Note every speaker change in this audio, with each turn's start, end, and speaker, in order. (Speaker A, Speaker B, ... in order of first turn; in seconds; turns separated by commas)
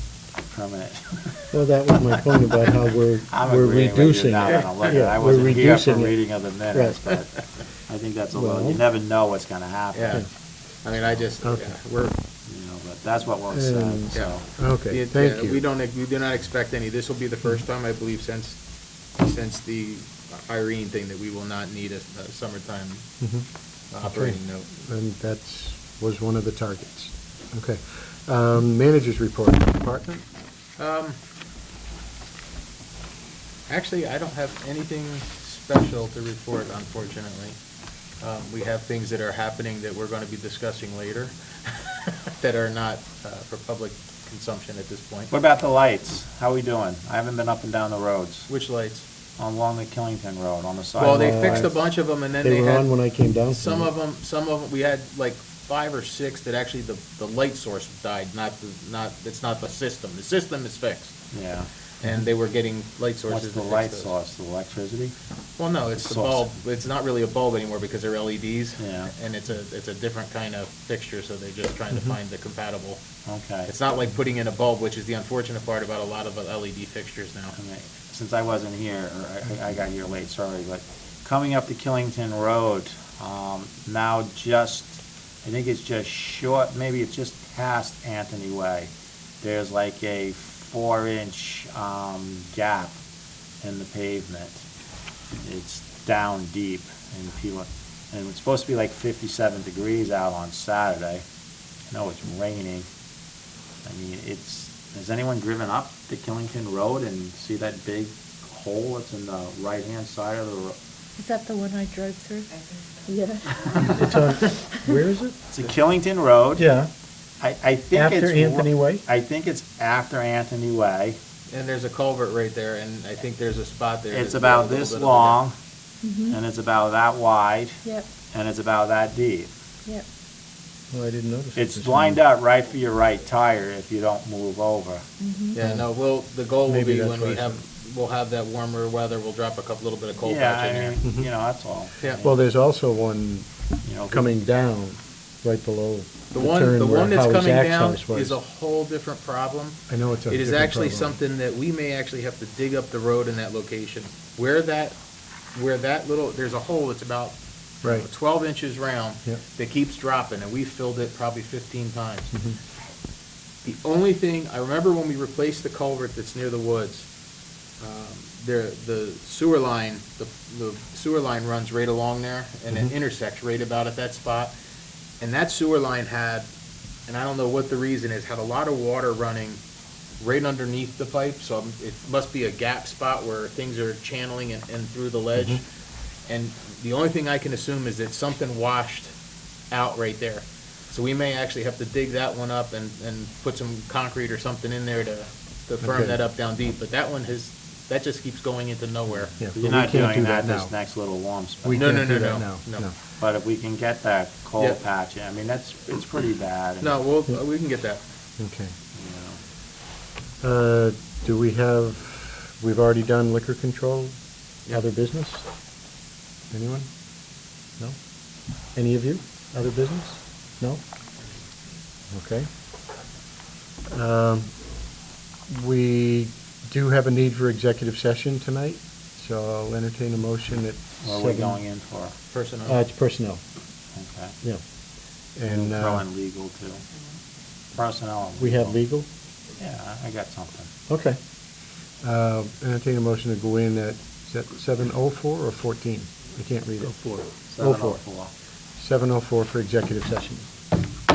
Speaker A: 0.5-2.7, Speaker B: 1.5-6.2, Speaker A: 3.3-7.3, Speaker A: 7.9-10.2, Speaker B: 8.3-8.8, Speaker C: 9.9-10.2, Speaker C: 10.8-12.2, Speaker B: 11.4-11.7, Speaker A: 12.5-14.4, Speaker B: 13.5-15.6, Speaker C: 14.1-18.6, Speaker C: 19.1-23.1, Speaker B: 23.2-23.4, Speaker C: 23.9-24.7, Speaker B: 24.0-30.2, Speaker C: 30.8-31.2, Speaker C: 33.7-37.6, Speaker C: 38.2-45.3, Speaker A: 45.3-48.5, Speaker C: 48.5-49.0, Speaker A: 49.4-51.7, Speaker B: 51.0-51.8, Speaker C: 51.0-61.2, Speaker B: 52.4-53.9, Speaker A: 61.3-61.7, Speaker C: 62.0-64.1, Speaker A: 63.3-65.1, Speaker C: 65.6-73.0, Speaker A: 66.0-66.5, Speaker A: 68.8-69.1, Speaker A: 73.2-73.7, Speaker C: 73.7-77.5, Speaker A: 77.5-88.9, Speaker A: 89.4-93.0, Speaker A: 93.6-94.7, Speaker A: 95.4-101.2, Speaker A: 101.9-102.9, Speaker A: 103.8-110.8, Speaker D: 111.2-115.0, Speaker B: 113.8-115.3, Speaker A: 115.5-116.7, Speaker B: 116.6-116.9, Speaker A: 117.4-121.2, Speaker B: 117.9-119.0, Speaker C: 121.5-125.4, Speaker A: 124.1-125.5, Speaker D: 126.0-126.4, Speaker A: 126.2-129.5, Speaker B: 130.9-132.2, Speaker A: 131.5-135.0, Speaker D: 135.2-135.6, Speaker C: 135.5-141.0, Speaker B: 135.6-135.8, Speaker B: 136.7-137.6, Speaker A: 140.2-142.4, Speaker B: 141.0-141.3, Speaker B: 142.2-143.5, Speaker A: 143.8-144.3, Speaker B: 144.1-148.4, Speaker C: 146.3-155.0, Speaker B: 149.9-151.2, Speaker C: 155.5-162.3, Speaker B: 157.8-158.1, Speaker B: 162.3-162.6, Speaker C: 163.6-167.1, Speaker C: 167.8-174.5, Speaker C: 175.2-176.5, Speaker C: 177.1-179.6, Speaker C: 180.2-185.6, Speaker B: 185.3-185.6, Speaker C: 186.3-189.1, Speaker C: 189.7-199.4, Speaker B: 195.8-196.2, Speaker B: 199.4-200.7, Speaker A: 199.4-201.9, Speaker B: 201.6-202.9, Speaker C: 201.7-202.8, Speaker A: 203.2-207.0, Speaker C: 206.8-208.0, Speaker B: 208.4-208.7, Speaker A: 208.9-209.4, Speaker B: 210.4-214.1, Speaker B: 214.7-215.5, Speaker B: 216.5-216.9, Speaker B: 218.7-220.8, Speaker B: 222.1-222.5, Speaker B: 223.9-224.5, Speaker B: 225.5-231.6, Speaker A: 231.0-232.1, Speaker C: 232.3-232.8, Speaker B: 232.7-233.4, Speaker A: 233.9-234.3, Speaker B: 235.3-236.0, Speaker A: 235.5-236.8, Speaker A: 237.7-238.8, Speaker B: 238.4-239.1, Speaker A: 239.6-240.7, Speaker B: 240.9-241.2, Speaker B: 242.0-248.0, Speaker A: 247.5-248.3, Speaker B: 248.8-250.5